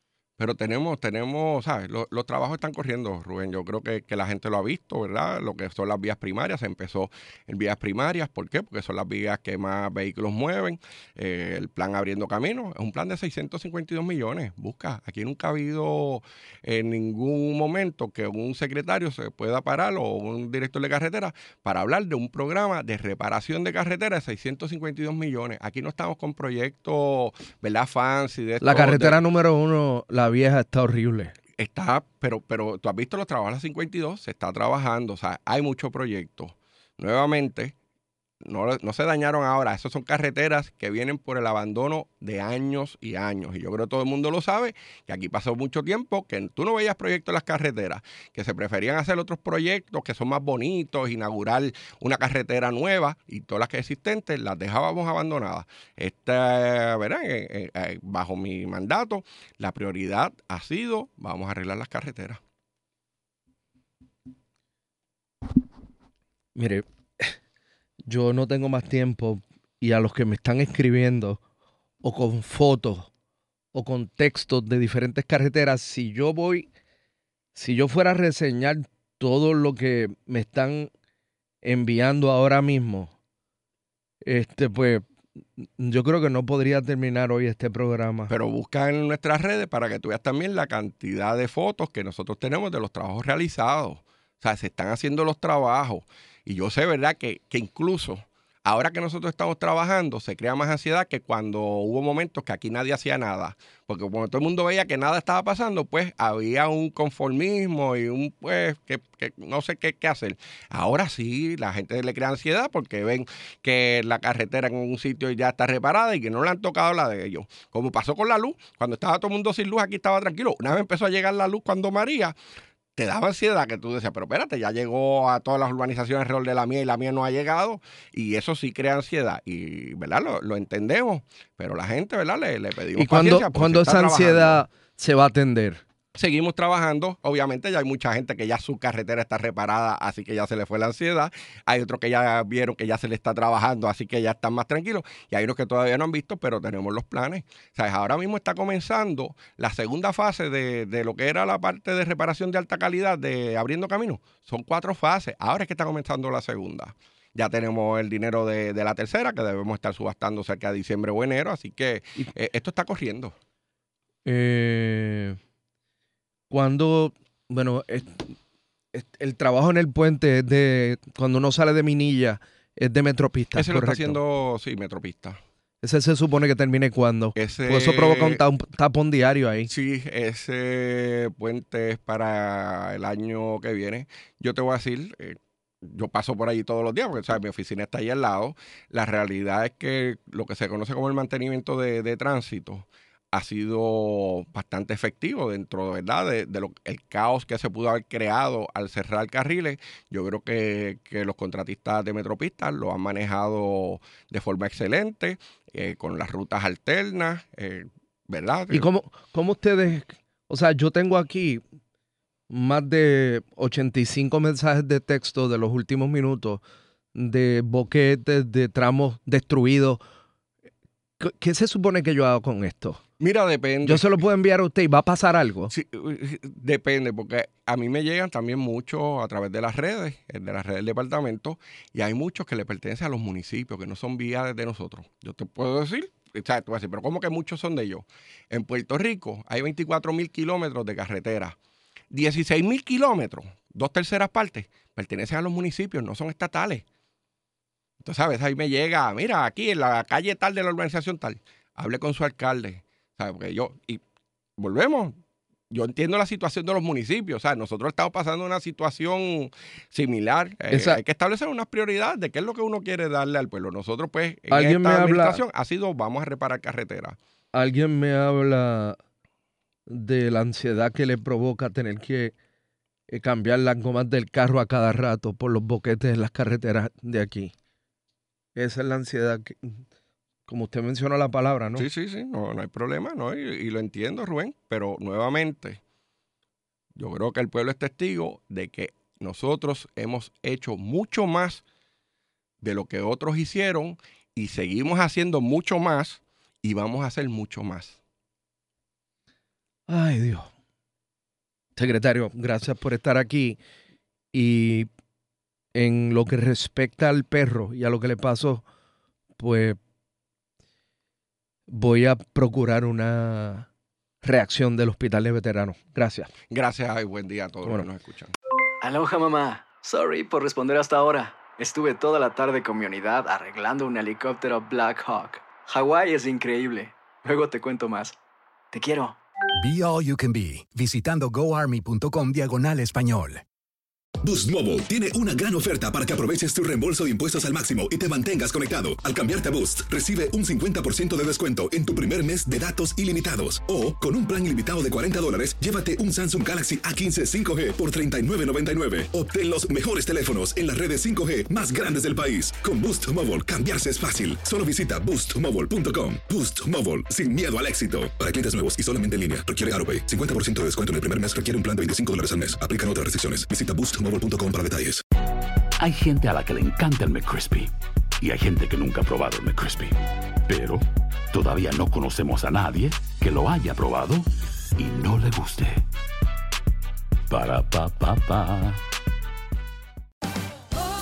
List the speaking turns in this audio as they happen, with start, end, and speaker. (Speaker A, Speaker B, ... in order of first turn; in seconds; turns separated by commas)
Speaker A: 0.4-29.2, Speaker B: 28.6-31.3, Speaker A: 31.6-37.8, Speaker A: 38.4-62.4, Speaker B: 66.5-67.3, Speaker B: 68.1-71.4, Speaker B: 72.0-73.1, Speaker B: 73.7-76.7, Speaker B: 77.5-80.9, Speaker B: 81.6-83.1, Speaker B: 84.2-88.3, Speaker A: 88.3-122.3, Speaker A: 123.0-134.7, Speaker B: 132.9-135.8, Speaker A: 136.2-163.3, Speaker B: 164.2-165.4, Speaker B: 166.5-168.4, Speaker B: 168.9-174.2, Speaker A: 173.6-175.4, Speaker B: 175.8-179.7, Speaker A: 177.4-178.4, Speaker A: 179.7-208.9, Speaker B: 208.7-211.6, Speaker B: 212.5-216.6, Speaker B: 217.2-220.0, Speaker B: 221.2-223.0, Speaker A: 223.2-224.2, Speaker B: 223.8-225.7, Speaker A: 225.7-241.6, Speaker A: 242.1-246.8, Speaker A: 248.0-254.0, Speaker A: 254.6-255.2, Speaker A: 255.7-267.2, Speaker B: 260.7-261.0, Speaker B: 264.5-265.4, Speaker B: 267.5-269.0, Speaker B: 269.9-272.3, Speaker B: 273.1-277.5, Speaker B: 278.6-279.8, Speaker B: 280.5-281.9, Speaker A: 281.8-285.8, Speaker A: 287.0-291.6, Speaker A: 292.6-298.0, Speaker B: 299.9-300.5, Speaker B: 301.8-303.6, Speaker B: 304.3-304.9, Speaker B: 305.7-308.6, Speaker B: 309.4-309.8, Speaker B: 311.7-313.7, Speaker B: 314.2-316.3, Speaker A: 316.5-318.3, Speaker C: 318.8-328.2, Speaker C: 328.7-329.2, Speaker D: 329.6-333.4, Speaker E: 334.2-365.0, Speaker F: 365.8-370.0, Speaker F: 370.5-375.8, Speaker F: 377.3-378.8